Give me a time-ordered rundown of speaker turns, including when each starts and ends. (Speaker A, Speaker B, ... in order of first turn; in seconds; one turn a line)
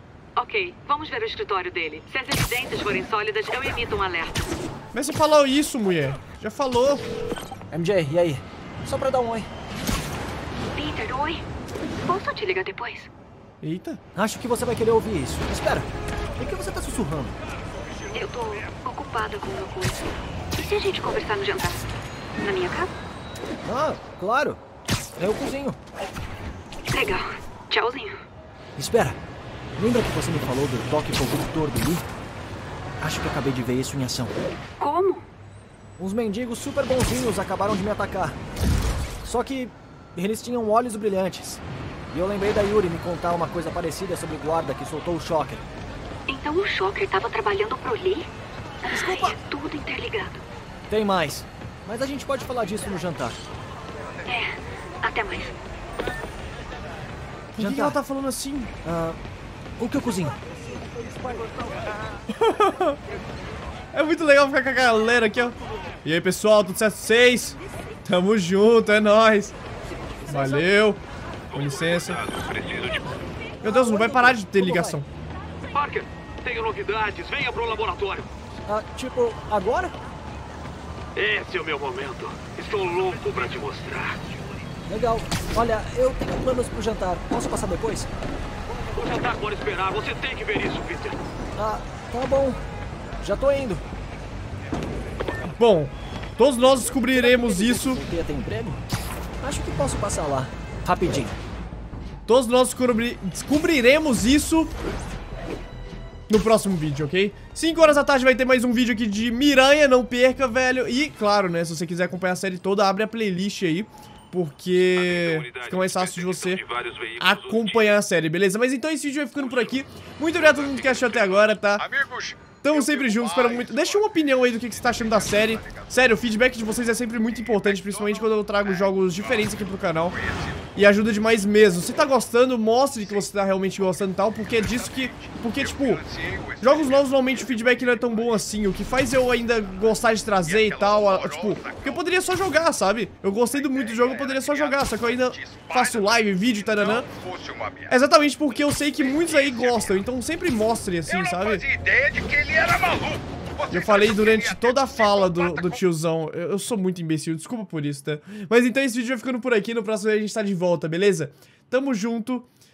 Speaker A: 0.4-4.4
Speaker B: 4.9-7.0
Speaker C: 7.7-9.5
Speaker A: 10.7-11.4
Speaker A: 12.0-13.1
Speaker B: 13.6-14.0
Speaker C: 14.2-17.4
Speaker A: 18.1-21.9
Speaker A: 22.4-22.9
Speaker C: 23.6-24.6
Speaker C: 25.2-25.8
Speaker A: 26.9-28.2
Speaker C: 28.8-29.2
Speaker C: 29.8-32.0
Speaker C: 33.0-34.4
Speaker A: 34.8-35.3
Speaker C: 36.0-38.4
Speaker C: 39.2-45.6
Speaker A: 46.3-48.3
Speaker A: 48.9-50.4
Speaker C: 48.9-49.4
Speaker C: 50.9-53.4
Speaker A: 54.3-55.6
Speaker B: 57.5-58.7
Speaker C: 57.6-58.0
Speaker C: 58.8-59.2
Speaker C: 59.8-61.8
Speaker B: 62.3-63.0
Speaker B: 63.9-69.5
Speaker B: 70.3-71.0
Speaker B: 71.5-72.2
Speaker D: 71.5-73.1
Speaker B: 73.6-75.1
Speaker C: 73.6-75.0
Speaker D: 75.6-78.3
Speaker C: 78.7-80.0
Speaker D: 81.1-84.4
Speaker C: 84.9-88.1
Speaker D: 88.9-91.2
Speaker C: 91.6-92.6
Speaker C: 93.2-93.8
Speaker B: 95.6-98.0
Speaker C: 97.1-98.8
Speaker C: 99.4-101.4
Speaker B: 102.3-104.8
Speaker B: 106.3-116.6
Speaker D: 114.9-117.9
Speaker B: 117.2-121.8
Speaker E: 119.4-126.3
Speaker B: 122.6-130.2
Speaker E: 127.3-130.9
Speaker B: 130.8-136.0
Speaker E: 132.9-142.1
Speaker B: 136.6-147.1
Speaker E: 143.5-148.0
Speaker B: 147.9-151.6
Speaker E: 148.6-150.1
Speaker E: 151.1-155.9
Speaker B: 153.7-162.5